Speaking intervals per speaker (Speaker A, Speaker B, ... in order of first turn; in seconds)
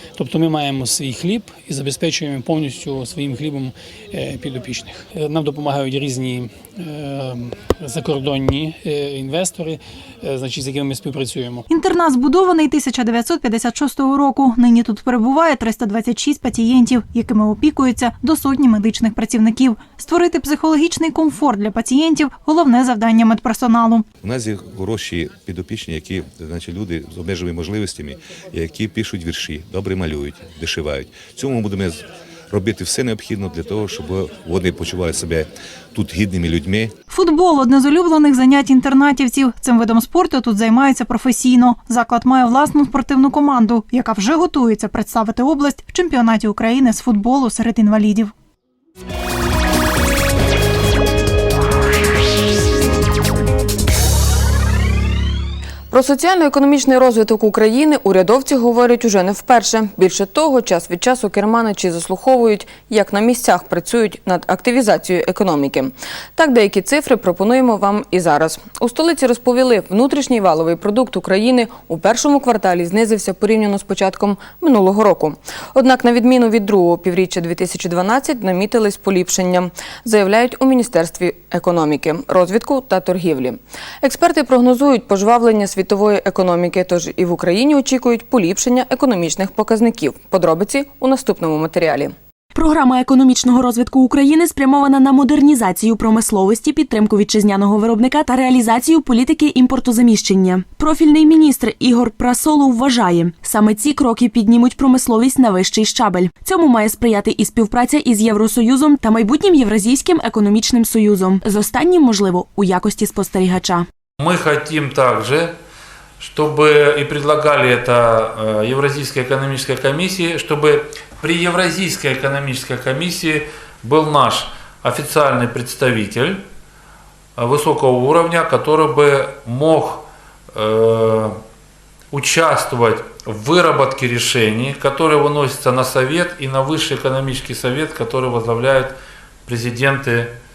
Speaker A: 0.2-11.7
Speaker B: 11.7-24.1, 37.1-48.3
Speaker C: 24.2-36.9
Speaker D: 55.9-92.1
Speaker E: 92.5-113.9
Speaker F: 114.2-115.5, 116.2-126.4, 127.4-131.4, 132.1-140.3